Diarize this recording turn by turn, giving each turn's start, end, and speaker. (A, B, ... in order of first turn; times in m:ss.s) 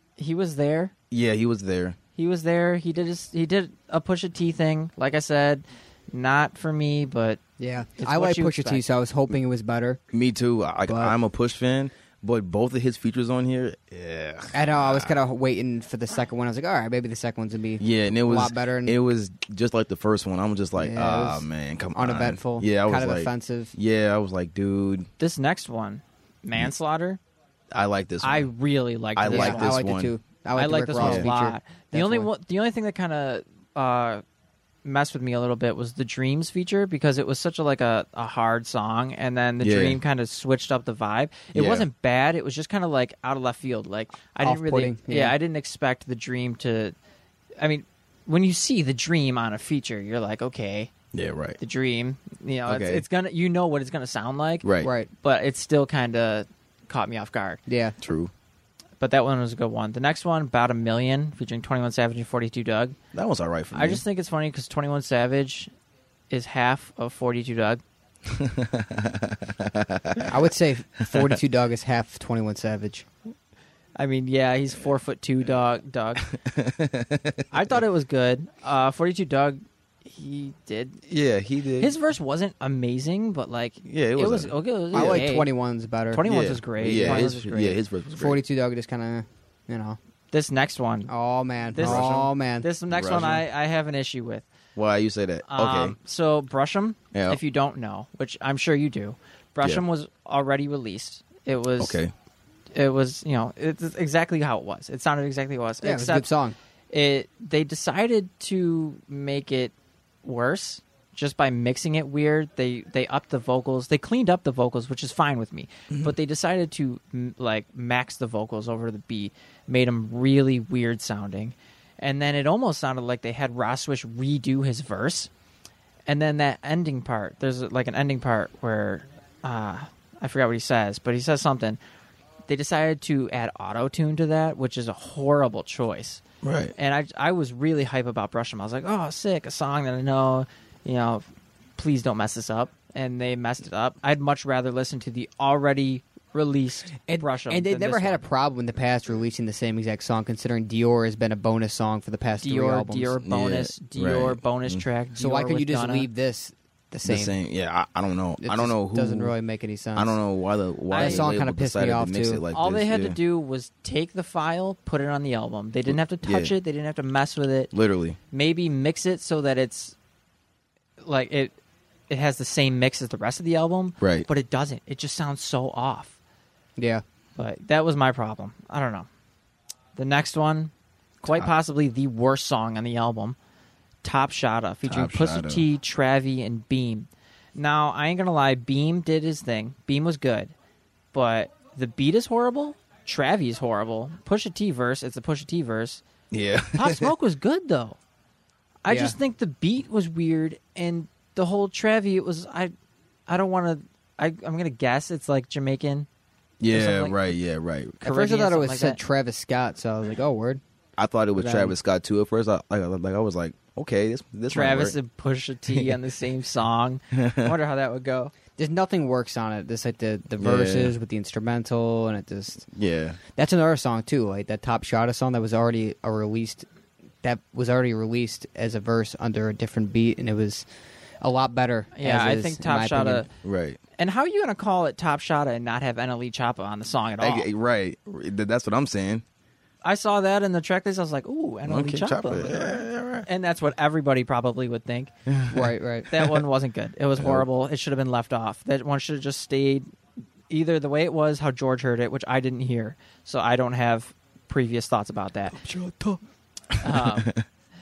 0:00.2-0:00.9 A
0:01.1-0:02.0 B
0:02.2-0:07.4 A
0:07.6-0:10.0 C
0:08.0-0:08.8 A
0:10.1-0:15.2 B
0:10.9-0:11.2 C
0:14.5-0:19.0 C
0:17.8-0:25.1 B
0:20.8-0:23.8 C
0:25.2-0:27.2 A
0:27.7-0:28.5 B
0:28.2-0:29.8 A
0:29.2-0:30.1 B
0:29.3-0:32.3 C
0:30.6-0:34.2 A
0:31.0-0:31.3 B
0:34.8-0:47.0 A
0:39.6-0:40.0 B
0:41.5-0:41.9 B
0:44.4-0:45.4 C
0:47.6-0:50.9 A
0:51.1-0:51.6 B
0:51.6-0:54.7 A
0:52.7-0:53.0 B
0:54.6-0:54.9 B
0:54.8-0:55.1 C
0:55.2-0:57.6 A
0:57.7-0:58.0 C
0:58.0-0:58.3 B
0:59.0-1:03.0 A
1:03.1-1:04.0 B
1:03.7-1:05.7 A
1:06.3-1:07.8 A
1:08.3-1:10.3 B
1:10.3-1:13.1 C
1:11.1-1:11.4 B
1:14.0-1:16.3 A
1:16.2-1:17.4 B
1:17.5-1:21.0 A
1:21.1-1:21.9 B
1:21.8-1:25.5 A
1:23.8-1:25.3 B
1:24.9-1:26.2 C
1:26.1-1:27.8 A
1:26.2-1:28.4 B
1:26.9-1:27.3 C
1:28.2-1:30.0 C
1:30.3-1:31.1 A
1:31.1-1:32.7 C
1:31.7-1:34.5 A
1:31.8-1:32.3 B
1:32.9-1:33.4 B
1:34.8-1:36.0 B
1:35.5-1:42.0 A
1:37.1-1:37.4 B
1:41.8-1:42.1 B
1:42.8-1:46.3 A
1:45.8-1:46.6 C
1:46.9-1:49.7 A
1:50.2-2:05.3 A
2:06.1-2:11.8 A
2:12.5-2:16.2 A
2:16.4-2:16.7 B
2:16.8-2:21.2 A
2:21.8-2:28.2 A
2:27.1-2:33.2 C
2:32.4-2:36.1 A
2:33.2-2:34.8 B
2:35.2-2:37.4 C
2:37.0-2:39.3 B
2:38.4-2:40.2 C
2:40.0-2:43.2 B
2:40.9-2:41.2 A
2:40.9-2:42.4 C
2:42.5-2:47.7 A
2:45.9-2:46.5 B
2:47.7-2:48.2 B
2:48.3-2:50.0 A
2:51.0-2:51.6 A
2:52.1-2:56.2 A
2:54.0-2:54.3 B
2:56.8-2:57.0 C
2:57.4-2:59.1 A
3:00.0-3:03.4 A
3:04.0-3:10.5 A
3:04.9-3:05.6 B
3:11.1-3:16.0 A
3:16.3-3:17.0 B
3:16.7-3:18.0 A
3:18.8-3:22.7 A
3:18.9-3:19.2 C
3:23.3-3:26.1 A
3:26.6-3:28.0 B
3:26.7-3:27.2 A
3:28.0-3:29.0 A
3:28.0-3:30.6 C
3:31.0-3:35.0 B
3:31.4-3:31.7 C
3:34.5-3:38.3 A
3:37.1-3:37.5 B
3:38.6-3:42.6 C
3:40.4-3:41.0 B
3:42.8-3:43.2 B
3:43.3-3:46.7 C
3:47.2-3:50.6 C
3:51.2-3:53.2 C
3:52.0-3:53.3 A
3:53.4-3:53.8 B
3:54.0-3:57.5 A
3:57.2-3:59.2 B
3:59.8-4:05.1 A
4:01.7-4:03.3 B
4:05.3-4:06.4 B
4:05.5-4:06.1 C
4:06.1-4:09.9 A
4:07.2-4:07.4 B
4:10.5-4:15.6 A
4:15.7-4:16.2 B
4:16.8-4:17.3 A
4:16.9-4:17.4 B